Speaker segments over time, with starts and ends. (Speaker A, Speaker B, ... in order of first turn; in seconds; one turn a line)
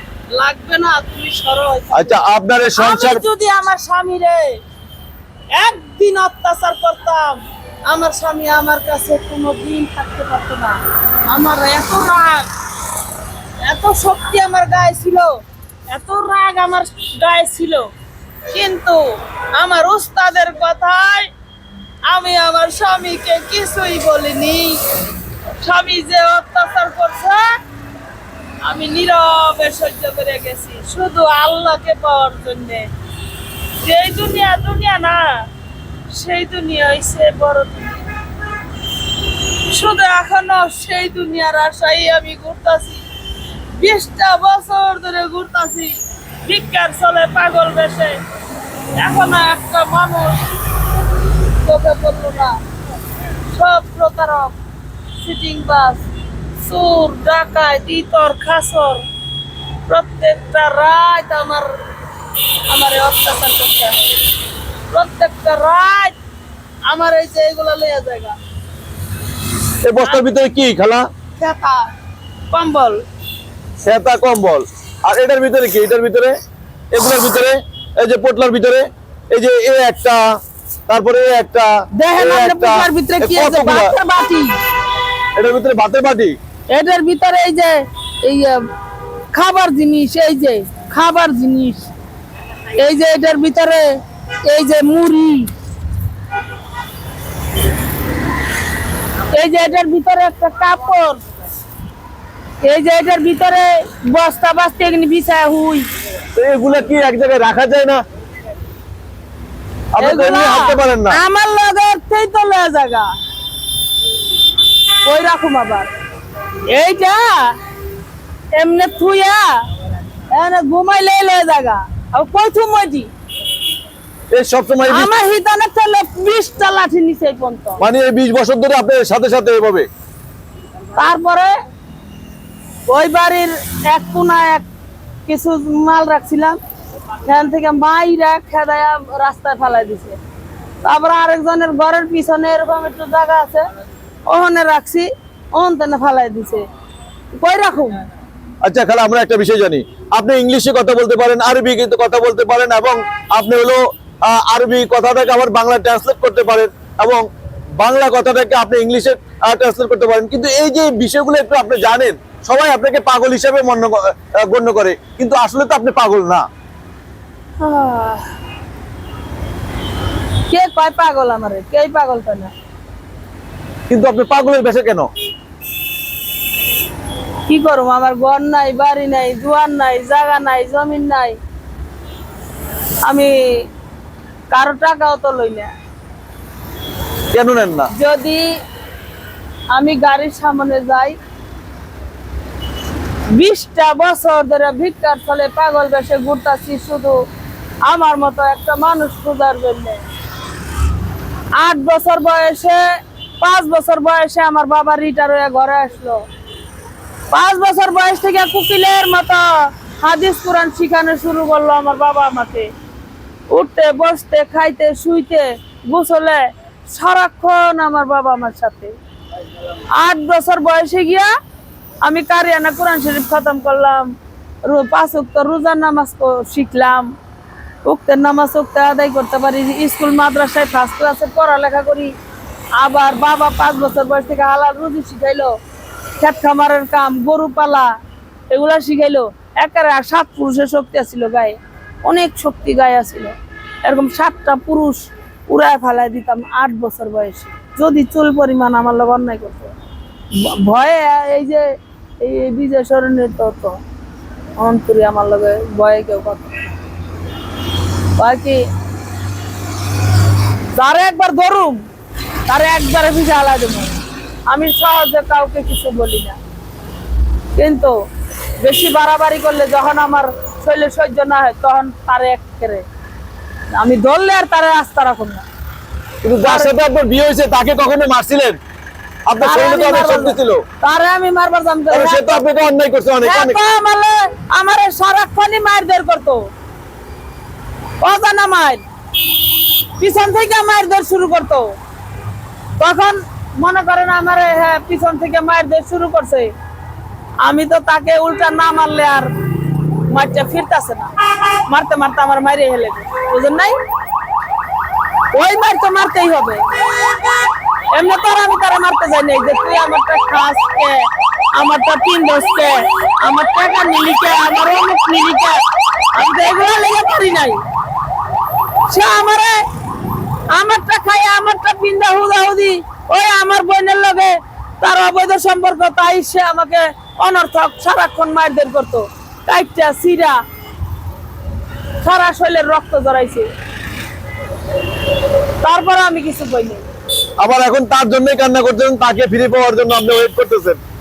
Speaker A: 0.3-2.2
Speaker B: 1.9-3.2
Speaker A: 2.7-4.6
Speaker A: 5.5-12.5
Speaker A: 13.6-15.4
Speaker A: 15.9-17.9
Speaker A: 18.5-21.3
Speaker A: 22.1-24.8
Speaker A: 25.6-27.5
Speaker A: 28.6-32.9
Speaker A: 33.8-35.5
Speaker A: 36.1-38.0
Speaker A: 39.6-43.0
Speaker A: 43.7-48.2
Speaker A: 48.9-50.5
Speaker A: 51.5-52.6
Speaker A: 53.5-54.5
Speaker A: 55.2-56.0
Speaker A: 56.6-59.0
Speaker A: 59.9-61.7
Speaker A: 62.7-64.0
Speaker A: 64.9-66.2
Speaker A: 66.9-68.3
Speaker B: 69.8-71.0
Speaker A: 70.0-70.3
Speaker A: 71.4-71.9
Speaker A: 72.5-73.0
Speaker B: 73.8-76.3
Speaker B: 76.9-80.2
Speaker B: 80.9-83.9
Speaker A: 82.0-84.5
Speaker B: 85.3-86.3
Speaker A: 86.7-88.6
Speaker A: 89.3-91.9
Speaker A: 92.7-95.5
Speaker A: 99.3-101.2
Speaker A: 102.6-105.9
Speaker B: 106.3-108.0
Speaker B: 109.9-111.2
Speaker A: 110.0-113.1
Speaker A: 115.0-115.9
Speaker A: 116.7-117.5
Speaker A: 118.5-119.6
Speaker A: 120.3-123.1
Speaker B: 124.3-125.1
Speaker A: 124.9-127.8
Speaker B: 127.8-129.9
Speaker A: 130.9-131.5
Speaker A: 132.9-134.6
Speaker A: 135.2-136.6
Speaker A: 137.2-140.2
Speaker A: 140.8-143.7
Speaker A: 144.2-146.7
Speaker A: 147.3-148.0
Speaker B: 148.6-157.2
Speaker B: 157.8-166.4
Speaker A: 167.6-168.2
Speaker A: 170.5-172.5
Speaker B: 173.9-175.1
Speaker A: 177.5-181.4
Speaker A: 183.0-183.6
Speaker A: 184.5-185.7
Speaker B: 187.3-187.9
Speaker A: 187.9-188.4
Speaker A: 189.7-191.2
Speaker A: 193.3-197.2
Speaker A: 197.8-200.0
Speaker A: 201.6-202.8
Speaker A: 203.4-206.2
Speaker A: 207.3-212.7
Speaker A: 213.5-218.9
Speaker A: 219.9-221.3
Speaker A: 222.0-224.1
Speaker A: 224.6-227.1
Speaker A: 227.8-232.1
Speaker A: 232.8-235.5
Speaker A: 236.2-237.9
Speaker A: 238.5-243.3
Speaker A: 243.8-249.7
Speaker A: 250.4-251.7
Speaker A: 252.2-253.8
Speaker A: 254.6-256.5
Speaker A: 258.1-258.6
Speaker A: 260.7-261.8
Speaker A: 262.5-264.0
Speaker A: 264.5-266.4
Speaker A: 267.6-267.9
Speaker A: 268.6-272.9
Speaker A: 273.7-275.4
Speaker B: 276.2-278.6
Speaker A: 276.4-276.7
Speaker B: 279.3-280.6
Speaker A: 279.4-282.5
Speaker B: 281.9-283.6
Speaker A: 283.2-286.4
Speaker A: 288.0-288.8
Speaker A: 290.0-291.8
Speaker A: 292.8-296.5
Speaker A: 297.4-299.3
Speaker A: 300.1-301.1
Speaker A: 301.6-303.8
Speaker A: 305.3-306.6
Speaker A: 307.9-315.6
Speaker A: 316.1-317.6
Speaker A: 318.9-319.6
Speaker A: 320.5-330.4
Speaker A: 332.0-333.5
Speaker A: 335.6-336.8
Speaker B: 337.4-340.8